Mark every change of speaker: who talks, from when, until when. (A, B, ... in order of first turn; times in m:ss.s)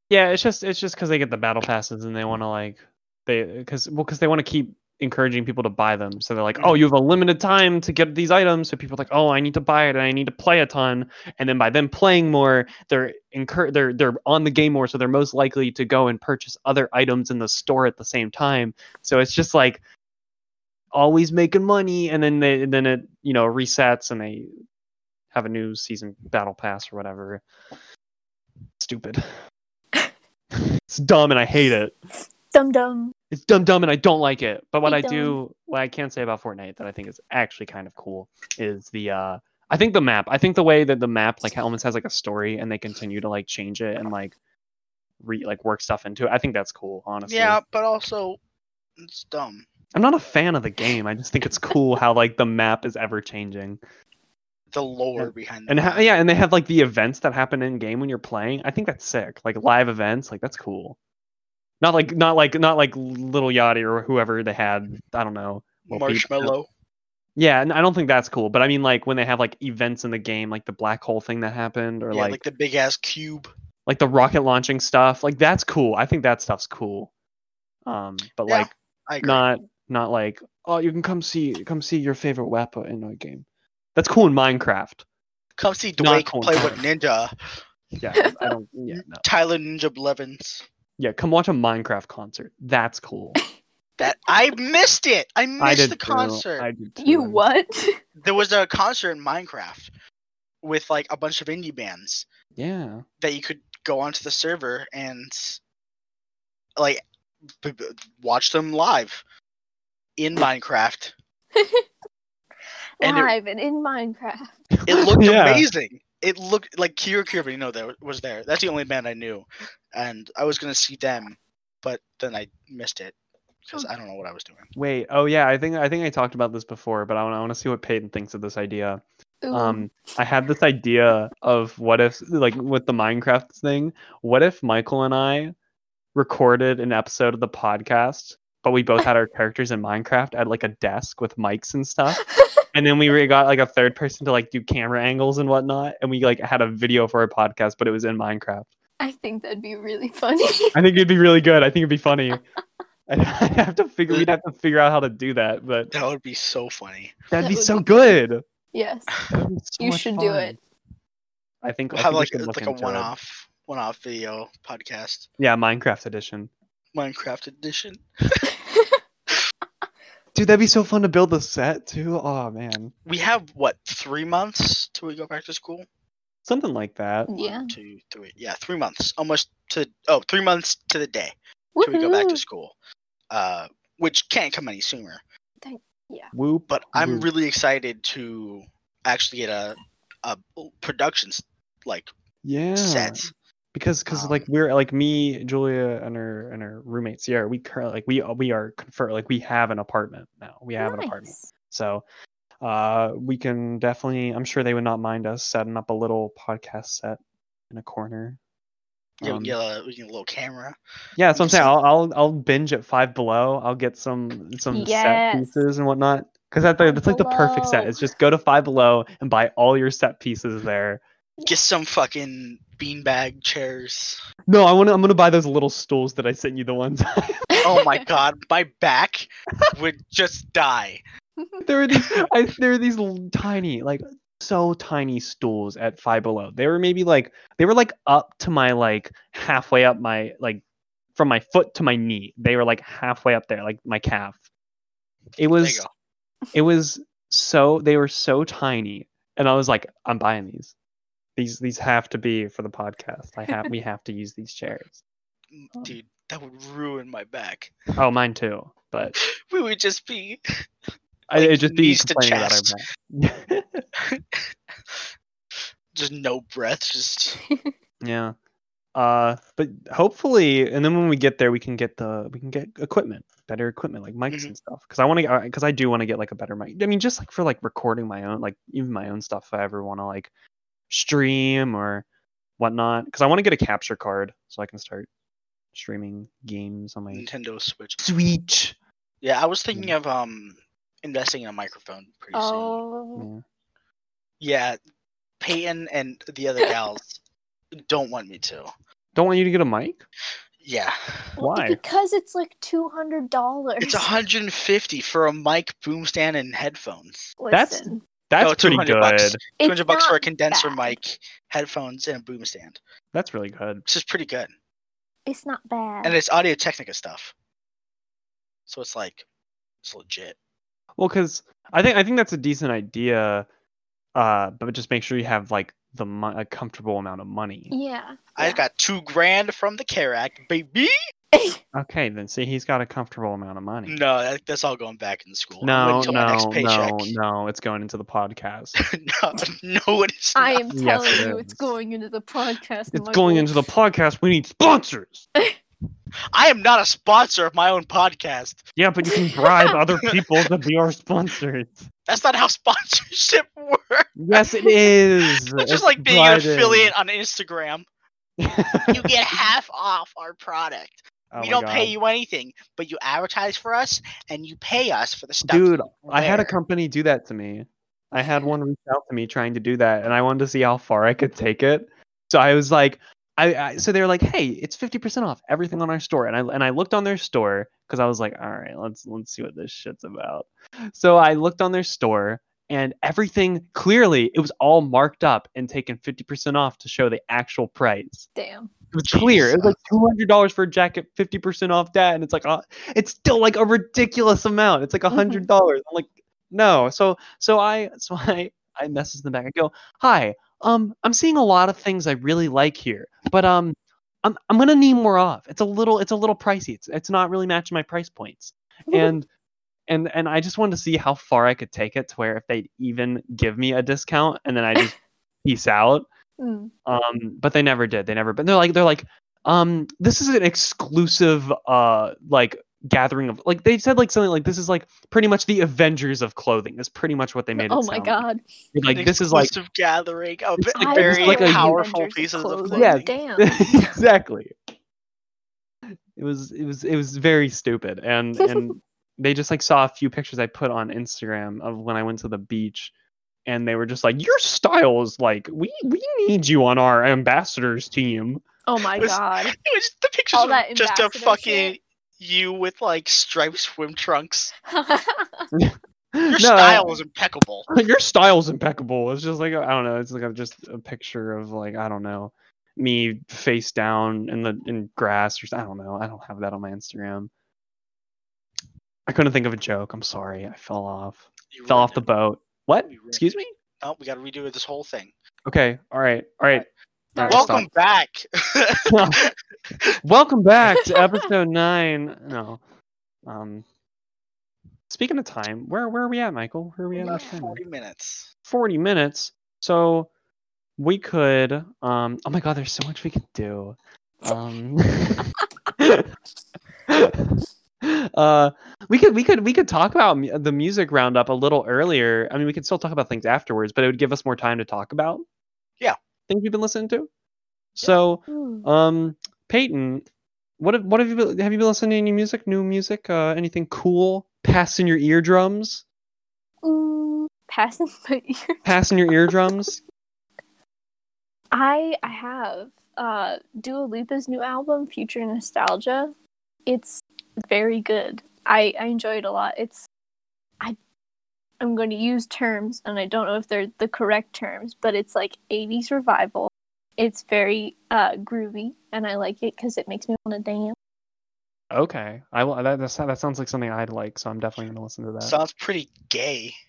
0:00.1-0:19.8 A
0:06.5-0:06.8 B
0:20.9-0:24.5 A
0:25.3-0:27.4 A
0:28.8-0:29.2 A
0:30.9-0:31.9 A
0:32.5-0:33.1 C
0:33.3-0:44.3 A
0:34.8-0:35.4 C
0:45.2-0:47.6 A
0:47.3-0:48.4 B
0:49.0-0:49.7 B
0:49.9-0:53.8 A
0:54.7-0:56.0 B
0:55.2-1:01.0 A
1:01.8-1:06.5 A
1:05.9-1:06.7 B
1:07.4-1:12.4 A
1:12.1-1:13.5 B
1:13.9-1:17.1 A
1:17.9-1:18.7 A
1:18.4-1:19.4 B
1:19.2-1:23.4 A
1:23.9-1:25.0 A
1:25.6-1:27.3 B
1:26.0-1:26.8 A
1:28.0-1:29.2 A
1:28.2-1:28.5 C
1:28.9-1:30.6 B
1:31.0-1:33.4 A
1:34.0-1:36.7 B
1:35.6-1:37.4 A
1:37.0-1:38.0 C
1:38.2-1:39.9 B
1:40.6-1:42.2 B
1:42.6-1:43.0 A
1:43.2-1:45.6 B
1:46.8-1:49.2 B
1:50.2-1:51.1 B
1:51.5-1:51.8 C
1:53.0-1:54.5 C
1:53.0-1:53.3 B
1:54.8-1:55.7 A
1:54.9-2:04.7 B
2:04.8-2:09.0 A
2:09.4-2:09.8 C
2:09.5-2:15.5 A
2:16.1-2:22.2 A
2:22.2-2:22.6 C
2:22.7-2:28.7 A
2:29.0-2:30.8 C
2:30.7-2:32.4 A
2:33.1-2:35.9 A
2:35.9-2:37.2 B
2:37.3-2:38.4 A
2:37.4-2:38.2 C
2:38.7-2:39.2 C
2:39.3-2:40.6 A
2:39.8-2:40.6 C
2:41.6-2:43.1 A
2:41.9-2:45.3 B
2:45.4-2:46.5 A
2:46.9-2:48.5 B
2:48.7-2:49.0 C
2:50.3-2:52.9 A
2:53.0-2:55.8 B
2:56.4-2:57.3 A
2:57.3-2:57.7 C
2:57.4-3:02.7 B
3:01.8-3:02.4 C
3:03.3-3:05.2 B
3:05.6-3:06.3 C
3:06.3-3:07.3 A
3:06.7-3:12.1 B
3:12.4-3:22.0 A
3:12.8-3:13.3 B
3:14.1-3:14.5 B
3:20.8-3:21.4 C
3:22.6-3:27.2 A
3:27.7-3:28.4 A
3:29.2-3:29.6 A
3:29.2-3:30.8 B
3:31.2-3:41.0 A
3:31.4-3:31.6 B
3:34.7-3:35.6 C
3:36.8-3:37.9 C
3:41.4-3:44.2 B
3:44.5-3:47.5 A
3:47.5-3:48.0 C
3:47.6-3:51.0 B
3:51.4-3:51.6 C
3:51.6-4:00.6 A
4:01.1-4:04.4 A
4:05.4-4:05.8 A
4:05.5-4:05.9 B
4:06.5-4:10.7 A
4:11.4-4:15.0 A
4:15.5-4:17.7 B
4:18.0-4:19.2 A
4:19.2-4:20.4 B
4:21.3-4:23.8 A
4:21.3-4:22.8 B
4:24.0-4:25.0 B
4:25.9-4:27.4 B
4:27.5-4:27.7 C
4:28.0-4:28.3 A
4:28.9-4:40.3 A
4:40.9-4:42.0 A
4:42.6-4:45.1 A
4:45.7-4:47.3 A
4:47.1-4:48.0 B
4:48.0-4:48.8 A
4:49.2-4:52.8 B
4:52.3-4:53.3 C
4:53.2-4:53.4 A
4:54.4-4:54.8 B
4:55.4-4:57.2 B
4:57.8-4:58.7 B
4:59.1-5:00.0 A
5:00.6-5:01.0 B
5:01.4-5:01.8 A
5:01.4-5:04.1 C
5:03.8-5:07.3 B
5:07.4-5:08.0 C
5:07.5-5:09.4 A
5:08.4-5:12.8 B
5:09.6-5:11.0 C
5:13.1-5:13.8 A
5:13.8-5:14.5 B
5:15.2-5:16.2 C
5:16.0-5:17.3 B
5:18.7-5:19.2 B
5:19.8-5:20.4 B
5:21.0-5:23.4 A
5:24.1-5:27.7 A
5:27.7-5:28.6 C
5:28.4-5:30.9 B
5:31.3-5:31.6 C
5:31.7-5:34.0 A
5:33.9-5:37.1 B
5:35.6-5:38.8 A
5:36.0-5:36.3 C
5:38.9-5:41.2 B
5:40.4-5:43.5 C
5:40.7-5:41.6 A
5:42.9-5:45.3 A
5:46.3-5:48.6 B
5:48.8-5:51.9 A
5:52.1-5:54.4 B
5:54.2-5:56.9 A
5:55.6-5:57.9 B
5:58.4-5:59.1 A
5:58.6-6:06.6 B
6:01.3-6:01.9 A
6:05.4-6:28.3 A
6:28.4-6:28.7 C
6:28.9-6:49.3 A
6:29.0-6:29.8 B
6:35.1-6:35.4 C
6:48.9-6:49.1 C
6:49.9-6:56.0 A
6:56.4-6:56.7 C
6:56.8-7:08.2 A
7:07.6-7:08.4 C
7:08.7-7:09.5 A
7:08.9-7:13.1 B
7:10.6-7:11.8 A
7:10.8-7:14.0 C
7:12.7-7:14.5 A
7:16.2-7:22.9 A
7:23.5-7:28.4 A
7:28.6-7:29.6 C
7:29.0-7:34.5 B
7:30.3-7:31.7 C
7:34.6-7:35.5 C
7:35.5-7:36.8 A
7:36.3-7:37.7 B
7:37.7-7:47.3 A
7:49.1-7:53.5 A
7:51.5-7:52.0 B
7:52.9-7:53.2 B
7:53.8-7:55.1 B
7:55.5-7:57.7 A
7:57.1-7:57.6 C
7:57.3-7:59.8 B
7:58.9-7:59.2 A
8:00.0-8:02.6 A
8:03.2-8:03.6 A
8:04.9-8:07.6 A
8:06.9-8:08.3 B
8:07.0-8:07.3 C
8:08.4-8:10.1 A
8:10.8-8:15.3 A
8:15.8-8:16.1 A
8:16.9-8:25.2 A
8:26.3-8:27.1 A
8:27.8-8:30.0 A
8:28.3-8:28.6 C
8:30.6-8:35.8 A
8:36.6-8:38.6 C
8:38.6-8:39.8 A
8:41.5-8:46.1 C
8:46.7-8:49.8 C
8:51.6-9:00.8 C
9:01.7-9:05.4 A
9:05.2-9:06.5 B